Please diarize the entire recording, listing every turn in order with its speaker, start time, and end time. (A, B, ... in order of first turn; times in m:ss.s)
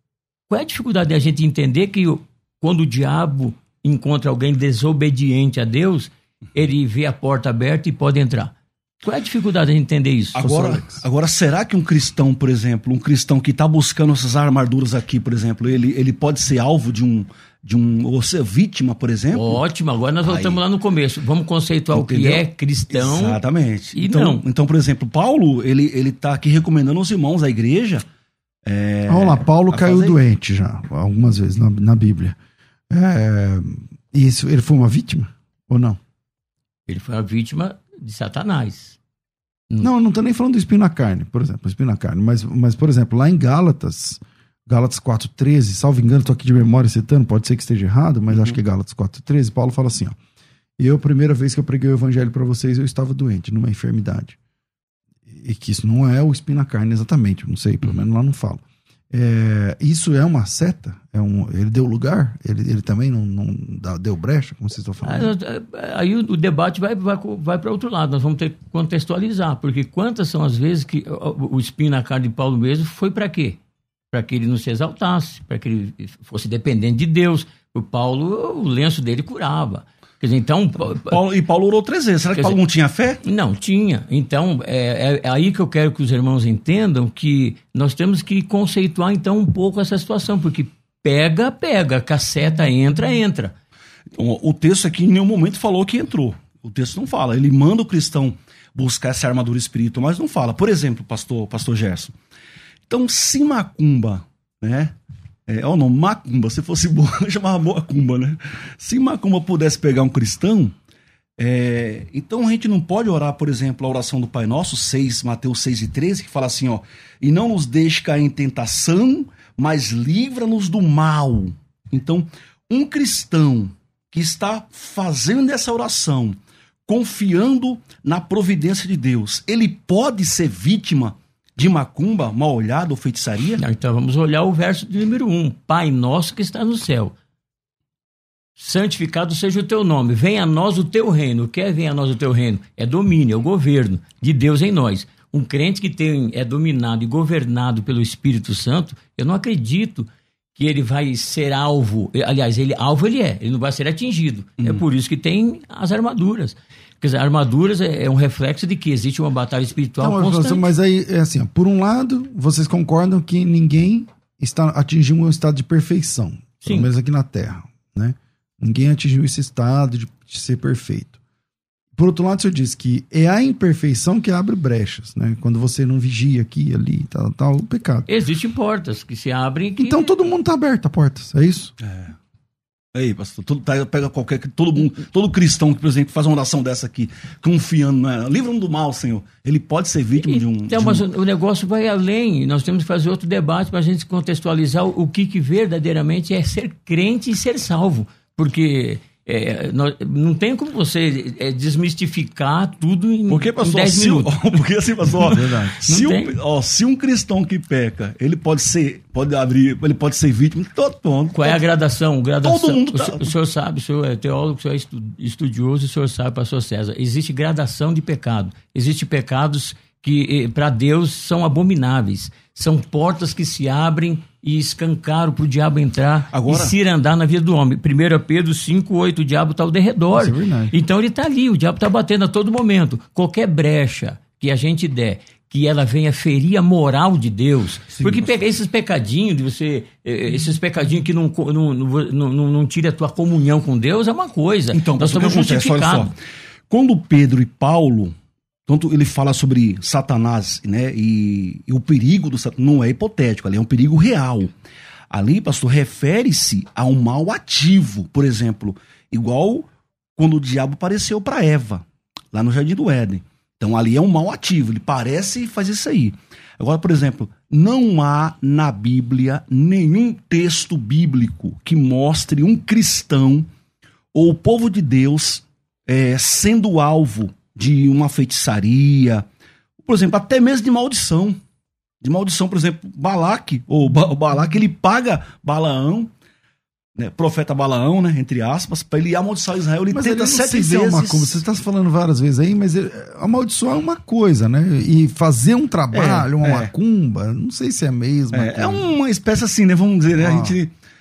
0:00.5-0:11.0 A
0:10.3-0:19.6 B
0:19.3-0:23.4 A
0:20.2-0:20.6 B
0:21.9-0:28.0 B
0:23.9-0:24.4 A
0:28.6-0:30.2 B
0:29.1-0:32.4 C
0:32.9-0:36.0 C
0:36.9-0:39.0 A
0:39.8-0:50.2 C
0:48.3-0:48.6 B
0:50.8-0:54.4 C
0:55.3-1:05.3 C
1:05.0-1:13.6 A
1:14.1-1:21.2 A
1:21.0-1:23.2 B
1:23.2-1:33.5 A
1:34.1-1:42.1 B
1:42.9-1:44.9 B
1:45.5-1:50.7 B
1:51.4-2:13.6 B
2:13.6-2:17.1 A
2:18.6-2:40.7 A
2:34.6-2:34.8 B
2:40.0-2:51.2 C
2:46.6-2:46.9 A
2:52.0-2:58.1 C
2:58.1-3:00.1 A
2:59.8-3:01.7 C
3:01.8-3:02.2 B
3:02.9-3:11.1 B
3:10.2-3:24.4 A
3:23.3-3:31.6 B
3:25.2-3:26.4 A
3:25.3-3:25.8 C
3:31.3-4:06.1 A
3:32.4-3:33.3 B
3:46.3-3:46.7 B
3:50.1-3:50.7 C
4:04.7-4:06.1 B
4:06.7-4:08.1 B
4:08.7-4:14.5 B
4:15.1-4:33.5 B
4:34.1-4:39.2 B
4:39.8-4:41.4 B
4:42.0-4:46.1 B
4:47.0-4:51.4 B
4:49.9-4:58.9 C
4:55.9-4:56.7 B
4:58.3-5:00.7 B
5:00.2-5:00.5 C